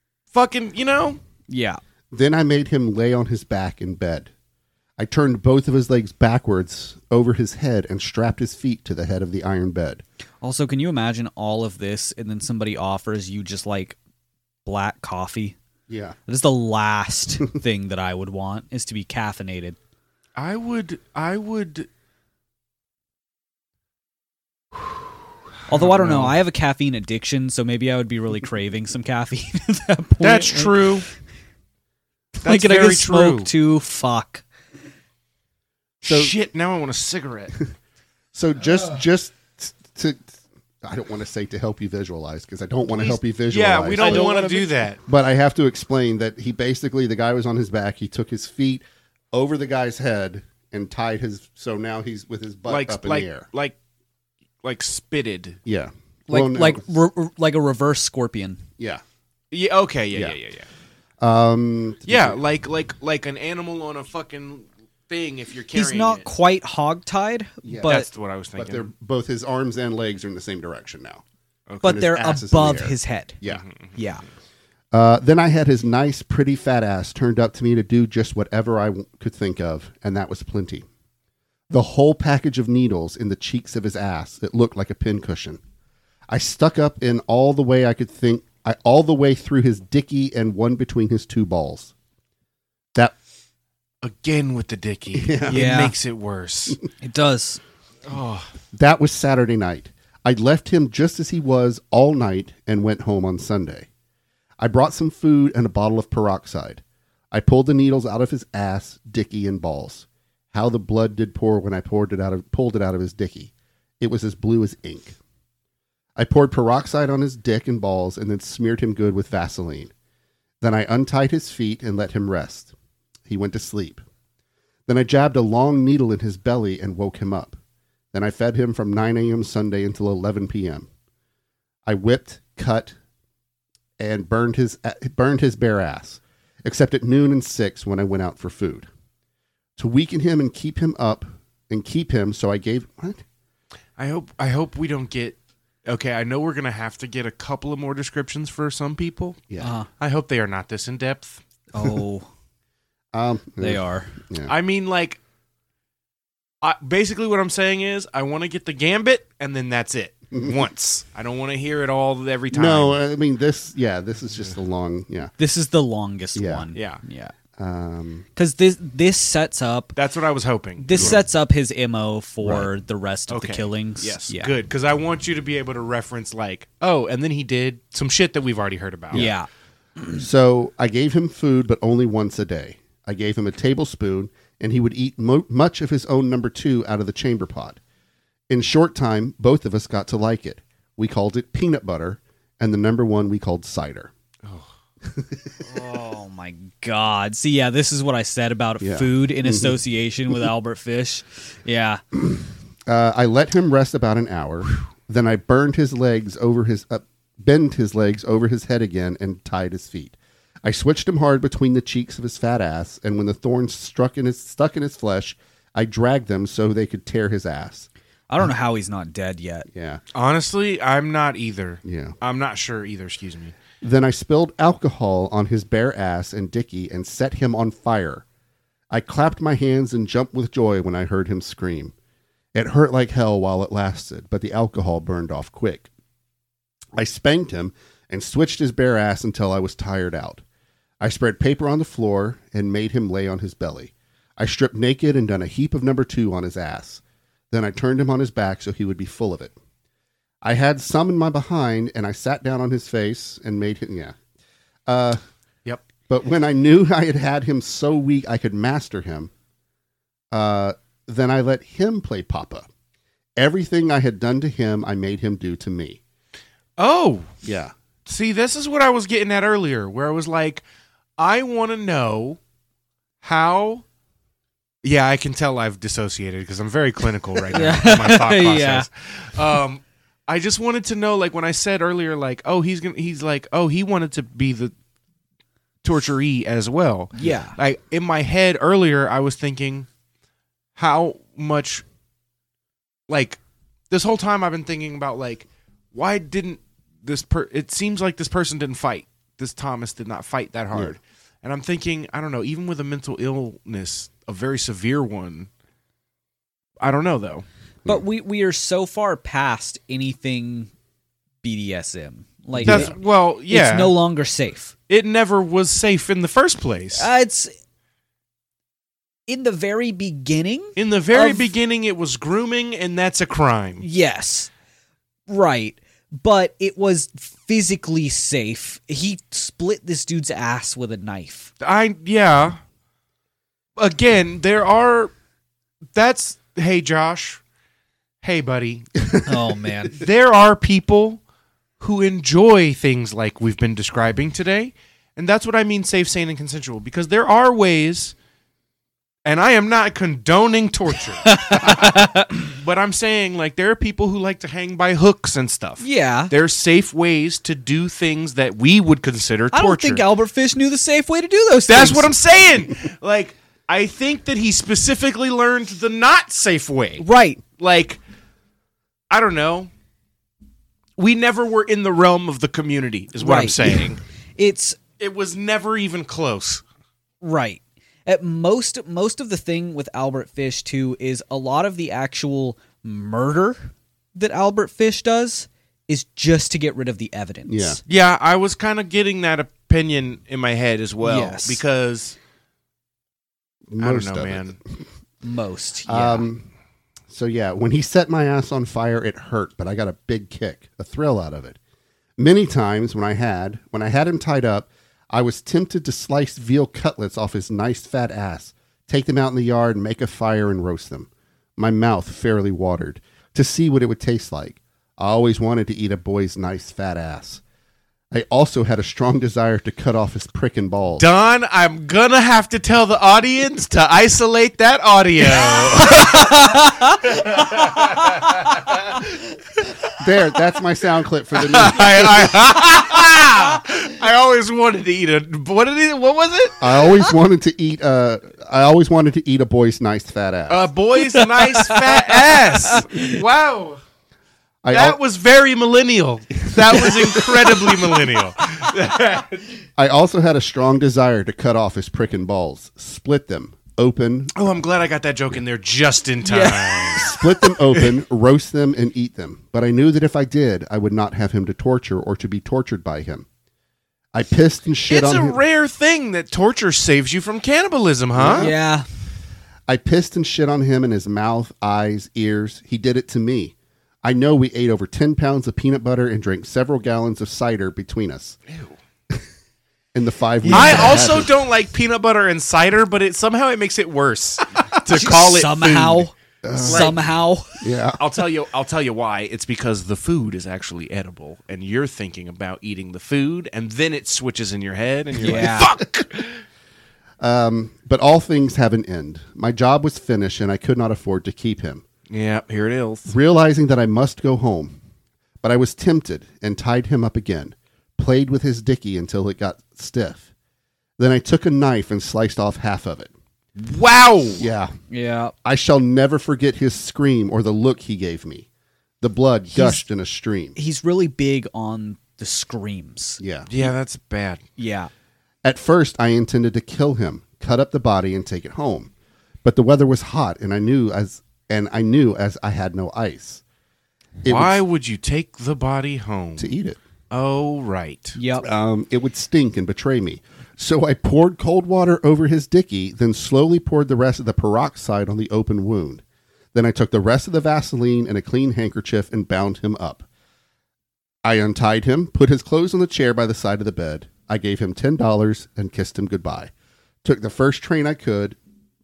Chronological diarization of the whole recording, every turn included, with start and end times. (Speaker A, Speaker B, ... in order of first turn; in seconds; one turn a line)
Speaker A: 0.3-1.2
Speaker B: 1.5-1.8
Speaker C: 2.1-4.3
Speaker C: 5.0-10.0
Speaker B: 10.4-14.0
Speaker B: 14.6-15.6
Speaker C: 15.9-16.1
Speaker B: 16.3-19.8
Speaker A: 20.4-21.9
Speaker B: 25.7-30.8
Speaker A: 25.7-26.4
Speaker A: 30.2-31.1
Speaker B: 32.4-34.4
Speaker A: 32.4-33.5
Speaker C: 36.0-36.3
Speaker A: 36.0-37.5
Speaker C: 38.3-53.5
Speaker A: 42.9-45.0
Speaker B: 44.0-44.6
Speaker A: 52.7-53.8
Speaker A: 54.6-55.6
Speaker C: 55.6-56.9
Speaker B: 56.3-58.6
Speaker A: 59.5-60.7
Speaker C: 61.2-62.4
Speaker A: 62.1-66.2
Speaker B: 65.7-68.1
Speaker C: 67.6-68.0
Speaker A: 67.8-68.9
Speaker C: 68.5-71.2
Speaker A: 71.7-72.0
Speaker B: 71.8-73.4
Speaker C: 71.8-73.6
Speaker A: 73.5-73.9
Speaker B: 73.9-74.2
Speaker C: 74.9-80.8
Speaker C: 81.7-85.6
Speaker C: 86.3-91.9
Speaker A: 94.0-96.8
Speaker C: 95.1-95.6
Speaker B: 95.5-95.9
Speaker B: 97.0-97.6
Speaker A: 98.1-98.5
Speaker C: 98.7-103.9
Speaker C: 104.6-115.2
Speaker C: 116.2-119.9
Speaker C: 120.6-122.7
Speaker C: 123.3-124.0
Speaker C: 124.9-127.6
Speaker C: 128.1-130.9
Speaker C: 131.8-133.0
Speaker C: 134.0-138.9
Speaker C: 139.8-143.2
Speaker A: 144.0-151.4
Speaker B: 149.6-149.9
Speaker B: 151.7-152.3
Speaker C: 153.1-154.5
Speaker B: 153.6-154.1
Speaker A: 154.5-155.2
Speaker A: 156.6-163.0
Speaker C: 162.5-165.3
Speaker B: 165.4-167.3
Speaker C: 166.3-166.7
Speaker A: 166.7-167.0
Speaker C: 167.6-168.2
Speaker B: 168.3-169.9
Speaker A: 169.9-171.2
Speaker B: 170.8-174.5
Speaker C: 172.4-172.7
Speaker A: 173.3-179.2
Speaker B: 179.1-179.5
Speaker C: 180.1-187.8
Speaker C: 188.5-194.1
Speaker A: 194.4-194.7
Speaker C: 195.0-195.6
Speaker B: 195.6-202.0
Speaker C: 198.8-199.8
Speaker C: 202.2-217.9
Speaker B: 218.3-219.7
Speaker C: 219.7-220.0
Speaker A: 220.1-223.5
Speaker C: 221.8-222.1
Speaker C: 223.8-228.2
Speaker C: 228.9-231.9
Speaker C: 232.5-235.9
Speaker C: 236.9-240.4
Speaker C: 241.0-249.5
Speaker C: 250.4-254.2
Speaker C: 254.9-255.2
Speaker C: 256.1-259.3
Speaker C: 260.3-262.7
Speaker C: 263.4-266.0
Speaker A: 266.8-267.3
Speaker C: 267.4-267.7
Speaker A: 268.1-270.6
Speaker A: 271.2-272.4
Speaker A: 273.2-273.8
Speaker A: 274.8-284.7
Speaker B: 277.5-278.9
Speaker A: 285.8-289.9
Speaker B: 287.1-287.5
Speaker A: 290.8-291.8
Speaker A: 293.1-293.4
Speaker A: 293.9-305.5
Speaker A: 306.8-307.4
Speaker B: 307.9-310.7
Speaker B: 311.4-312.9
Speaker C: 312.6-312.9
Speaker A: 312.6-313.9
Speaker B: 313.5-314.7
Speaker A: 314.9-317.1
Speaker B: 316.9-317.5
Speaker B: 319.3-321.5
Speaker A: 320.8-323.8
Speaker B: 323.8-324.5
Speaker B: 325.3-331.5
Speaker A: 331.6-332.6
Speaker A: 333.8-335.1
Speaker A: 335.9-337.4
Speaker A: 338.2-339.1
Speaker B: 339.2-340.0
Speaker A: 339.9-341.2
Speaker A: 341.8-348.1
Speaker A: 349.2-360.0
Speaker B: 351.2-352.3
Speaker B: 355.8-356.3
Speaker B: 359.5-362.1
Speaker A: 361.7-367.0
Speaker B: 367.0-367.4
Speaker A: 367.6-368.0
Speaker A: 369.1-369.7
Speaker A: 371.0-374.0
Speaker B: 373.2-373.9
Speaker B: 374.4-374.8
Speaker A: 375.0-376.6
Speaker B: 377.2-387.8
Speaker C: 387.5-387.8
Speaker A: 387.9-392.2
Speaker B: 391.0-391.6
Speaker C: 393.7-394.6
Speaker A: 393.8-394.6
Speaker B: 395.2-396.3
Speaker C: 395.9-396.5
Speaker C: 397.1-401.6
Speaker C: 402.2-417.4
Speaker C: 418.1-421.1
Speaker A: 421.0-429.1
Speaker B: 425.8-427.1
Speaker C: 430.0-432.4
Speaker A: 431.4-436.7
Speaker C: 436.6-440.6
Speaker A: 440.5-443.8
Speaker B: 441.0-443.2
Speaker C: 444.6-445.0
Speaker A: 444.7-449.6
Speaker C: 446.5-447.9
Speaker C: 449.8-454.3
Speaker A: 454.3-457.1
Speaker B: 456.2-457.2
Speaker C: 456.9-463.2
Speaker C: 464.1-465.4
Speaker A: 464.9-468.5
Speaker C: 468.1-468.5
Speaker B: 468.4-468.9
Speaker C: 469.7-478.4
Speaker A: 478.5-478.7
Speaker C: 479.9-481.3
Speaker B: 480.4-481.2
Speaker A: 480.5-487.0
Speaker B: 484.9-487.6
Speaker C: 486.4-487.0
Speaker C: 487.6-488.0
Speaker A: 488.0-496.4
Speaker C: 495.2-495.8
Speaker B: 495.2-495.7
Speaker C: 497.2-501.8
Speaker A: 502.1-503.1
Speaker C: 503.1-504.8
Speaker C: 505.4-510.3
Speaker C: 511.0-513.1
Speaker A: 513.5-514.5
Speaker C: 514.4-514.7
Speaker B: 514.9-515.3
Speaker C: 515.4-518.5
Speaker C: 519.0-520.5
Speaker B: 519.5-519.8
Speaker B: 520.5-523.6
Speaker C: 523.2-523.5
Speaker A: 523.5-524.4
Speaker B: 524.6-524.9
Speaker C: 525.4-528.9
Speaker C: 529.4-533.4
Speaker C: 534.2-534.6
Speaker A: 534.2-536.5
Speaker C: 536.4-536.8
Speaker A: 537.1-538.2
Speaker B: 538.1-538.4
Speaker C: 538.4-546.0
Speaker C: 546.5-550.0
Speaker C: 551.2-556.5
Speaker C: 557.0-558.4